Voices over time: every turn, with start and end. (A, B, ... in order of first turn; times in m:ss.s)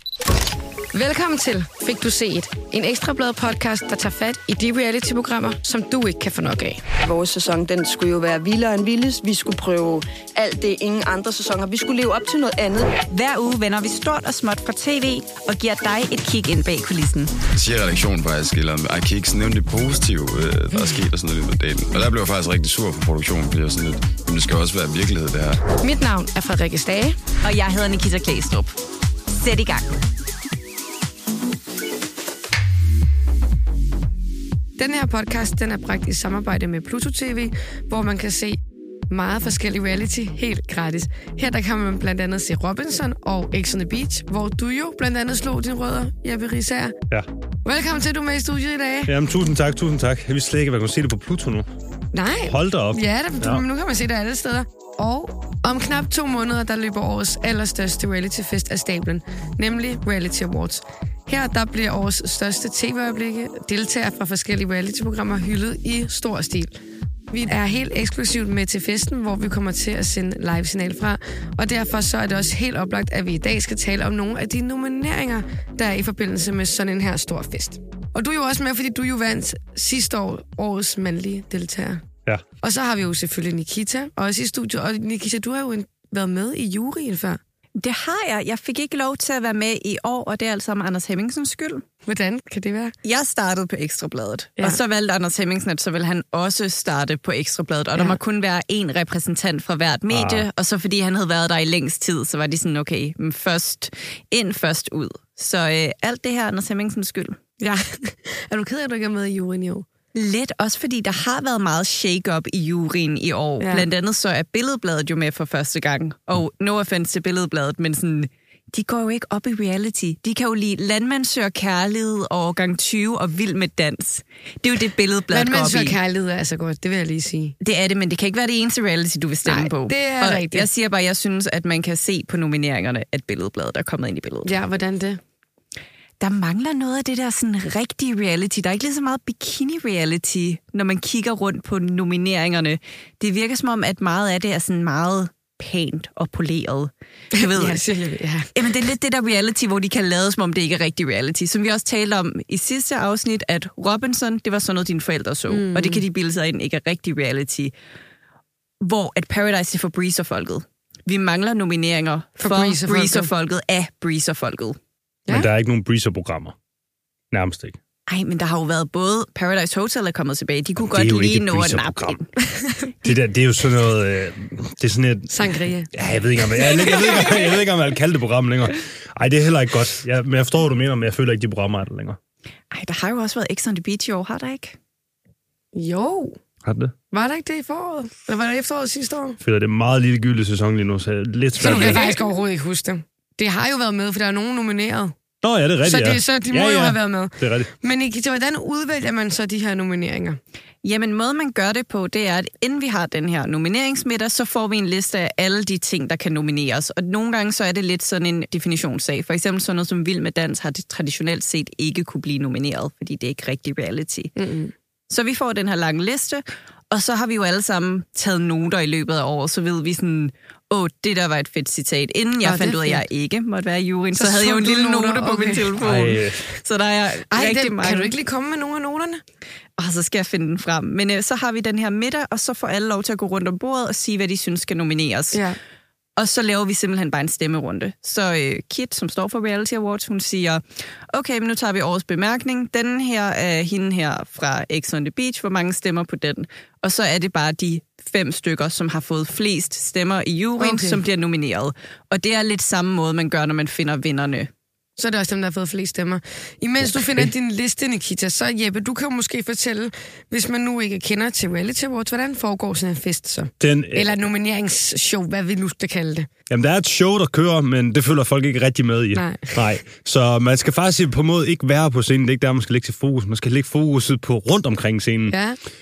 0:00.9-0:06.8 A
0:07.0-0:13.0 B
0:13.1-0:17.3 C
0:17.5-0:25.6 D
0:25.7-0:27.2 A
0:27.4-0:28.8 C
0:29.3-0:29.9 C
0:34.8-0:38.6 A
0:39.1-0:46.9 A
0:47.6-0:49.1 A
0:49.0-0:51.7 E
0:52.1-1:06.7 A
0:52.4-0:53.6 E
1:07.3-1:22.0 A
1:22.6-1:27.4 A
1:27.8-1:31.8 C
1:32.0-1:32.9 A
1:33.0-1:47.4 C
1:40.1-1:40.4 E
1:47.6-1:49.8 A
1:50.1-2:06.0 C
1:53.6-1:53.8 A
2:05.3-2:07.5 A
2:07.6-2:14.5 C
2:09.4-2:10.7 A
2:14.4-2:15.2 A
2:16.2-2:27.8 C
2:27.3-2:28.5 A
2:28.5-2:37.7 C
2:35.5-2:36.0 A
2:38.8-2:44.8 C
2:42.4-2:43.3 A
2:45.3-2:46.5 E
2:47.3-2:47.8 E
2:48.1-2:52.3 C
2:50.8-2:52.2 E
2:53.0-2:55.3 E
2:55.3-2:55.9 A
2:55.9-3:02.2 E
3:02.7-3:04.8 C
3:05.7-3:06.3 A
3:06.6-3:06.9 E
3:07.1-3:09.4 A
3:09.4-3:12.2 E
3:11.6-3:15.1 A
3:15.4-3:17.7 E
3:15.8-3:20.4 A
3:20.8-3:34.3 C
3:34.4-3:34.7 A
3:35.1-3:48.1 C
3:42.4-3:43.0 A
3:44.2-3:45.7 A
3:45.8-3:46.5 E
3:47.3-3:49.2 A
3:49.8-3:55.4 C
3:56.2-4:14.5 C
4:10.6-4:11.0 A
4:15.0-4:26.3 A
4:16.8-4:17.3 E
4:23.6-4:24.1 E
4:26.5-4:35.4 E
4:29.1-4:29.6 A
4:35.3-4:35.6 A